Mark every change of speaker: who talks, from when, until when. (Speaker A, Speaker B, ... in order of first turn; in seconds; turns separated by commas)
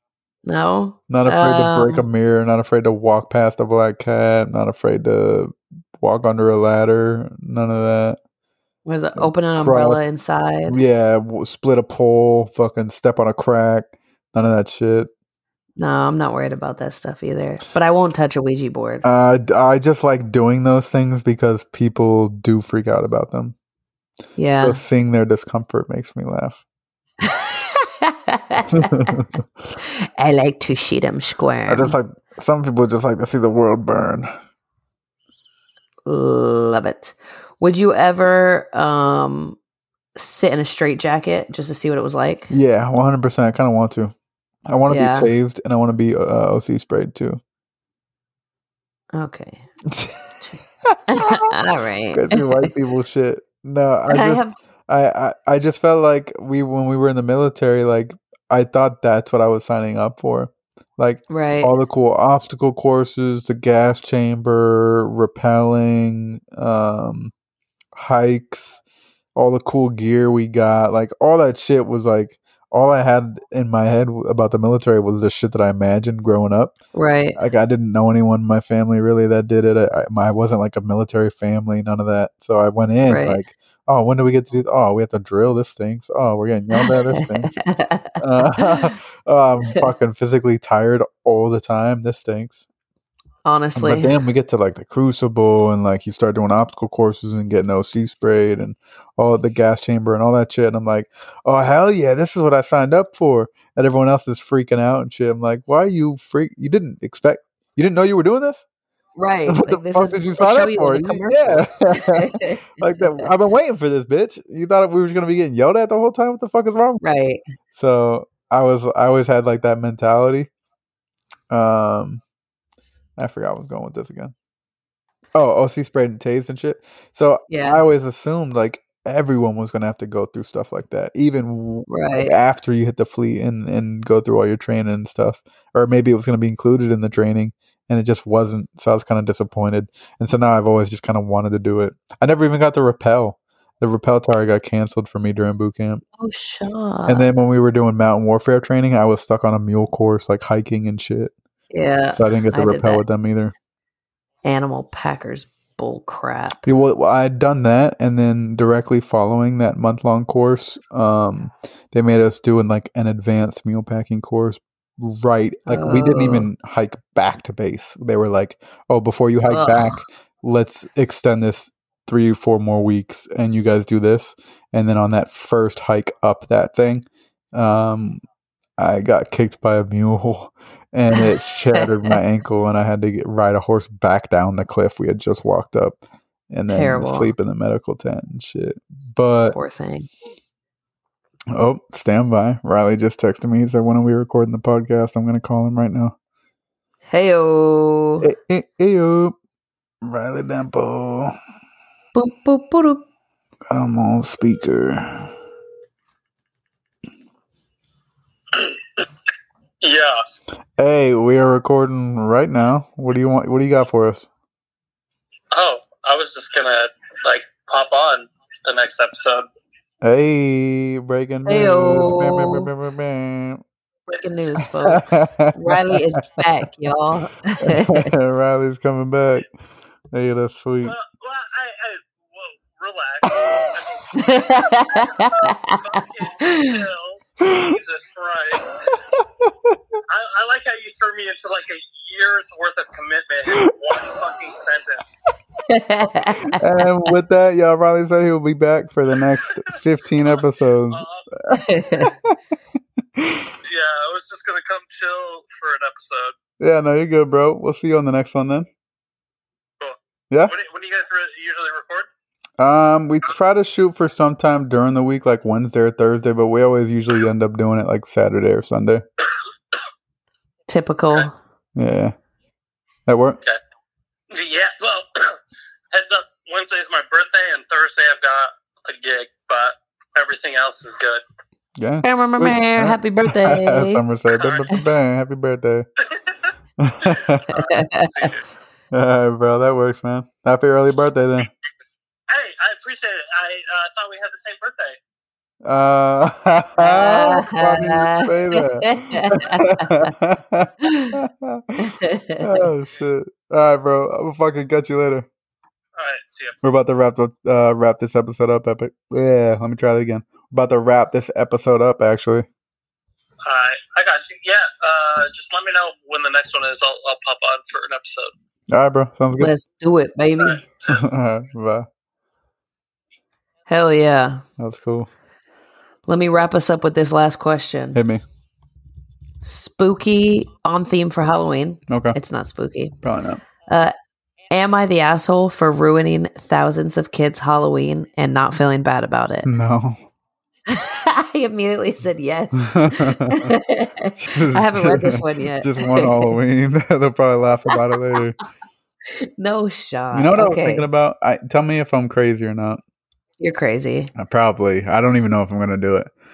Speaker A: 0.5-2.0, Speaker B: 1.1-8.2, Speaker A: 8.8-10.8, Speaker B: 9.2-10.0, Speaker B: 10.7-15.1, Speaker A: 15.8-19.1, Speaker B: 19.0-23.6, Speaker A: 24.4-24.8, Speaker B: 24.6-26.6, Speaker A: 27.2-29.2, Speaker B: 28.7-29.3, Speaker A: 29.8-32.0, Speaker B: 31.7-34.3, Speaker A: 36.1-39.6, Speaker A: 40.2-42.5, Speaker B: 42.5-44.1, Speaker B: 44.7-47.4, Speaker A: 44.9-45.3, Speaker A: 49.1-49.7, Speaker B: 49.9-51.5, Speaker A: 51.1-52.7, Speaker B: 52.1-67.3, Speaker A: 54.1-54.6, Speaker A: 61.3-61.7, Speaker B: 68.0-68.8, Speaker B: 69.4-76.8, Speaker A: 76.9-77.4, Speaker B: 77.4-87.5, Speaker A: 83.1-83.4, Speaker A: 86.7-88.9, Speaker B: 88.2-92.6, Speaker A: 93.5-94.1, Speaker B: 93.8-108.7, Speaker A: 109.2-113.3, Speaker B: 109.5-117.0, Speaker A: 117.0-117.4, Speaker B: 117.7-120.5, Speaker B: 121.5-122.2, Speaker B: 123.2-124.3, Speaker B: 125.3-146.0, Speaker A: 127.5-127.8, Speaker A: 131.9-132.3, Speaker A: 146.2-147.3, Speaker B: 147.1-151.3, Speaker A: 151.7-153.0, Speaker B: 152.2-153.5, Speaker A: 154.4-156.6, Speaker B: 156.6-178.2, Speaker A: 165.7-166.5, Speaker A: 169.5-170.0, Speaker B: 178.8-186.0, Speaker A: 181.1-182.1, Speaker B: 186.5-189.6, Speaker A: 186.7-187.3, Speaker A: 189.5-190.1, Speaker B: 191.5-196.2, Speaker A: 197.1-198.3, Speaker B: 198.2-199.4, Speaker B: 200.0-201.4, Speaker A: 202.2-203.1, Speaker B: 203.7-205.3, Speaker C: 209.8-210.2, Speaker B: 210.8-214.3, Speaker C: 215.5-219.5, Speaker B: 220.0-223.6, Speaker A: 221.5-222.7, Speaker A: 224.1-228.1, Speaker B: 224.8-226.2, Speaker B: 227.6-229.5, Speaker B: 230.1-230.9, Speaker C: 230.8-238.7, Speaker B: 233.3-233.7, Speaker A: 234.1-236.8, Speaker B: 237.4-237.8, Speaker B: 239.1-239.8, Speaker C: 240.1-245.2, Speaker B: 243.6-244.2, Speaker A: 245.7-246.6, Speaker B: 246.5-252.4, Speaker C: 250.9-251.3, Speaker A: 251.5-252.1, Speaker B: 253.2-253.5, Speaker C: 253.7-256.3, Speaker B: 256.6-258.7, Speaker C: 259.8-262.1, Speaker B: 262.6-269.1, Speaker A: 270.7-271.4, Speaker B: 271.8-272.1, Speaker B: 273.1-273.4, Speaker C: 274.3-275.4, Speaker C: 275.9-281.2, Speaker B: 281.8-285.9, Speaker A: 282.0-284.0, Speaker C: 284.3-284.7, Speaker B: 286.8-287.6, Speaker C: 287.0-288.4, Speaker A: 287.5-288.3, Speaker B: 288.9-291.5, Speaker C: 292.3-295.0, Speaker B: 295.6-305.3, Speaker A: 296.8-300.1, Speaker A: 300.8-301.2, Speaker A: 301.8-302.7, Speaker C: 306.0-306.6, Speaker B: 306.6-312.5, Speaker C: 313.5-318.3, Speaker B: 318.7-319.5, Speaker A: 319.4-320.6, Speaker C: 320.4-321.0, Speaker B: 320.9-321.9, Speaker A: 323.7-324.4, Speaker B: 324.6-325.1, Speaker A: 326.1-328.0, Speaker B: 327.9-328.2, Speaker A: 329.4-333.0, Speaker B: 331.9-332.2, Speaker B: 333.0-333.4, Speaker A: 333.7-333.9, Speaker A: 334.5-339.5, Speaker B: 339.4-340.0, Speaker A: 340.7-346.3, Speaker B: 342.6-343.6, Speaker B: 344.2-348.4, Speaker A: 349.1-350.9, Speaker B: 350.1-352.8, Speaker A: 353.4-354.1, Speaker B: 354.1-356.1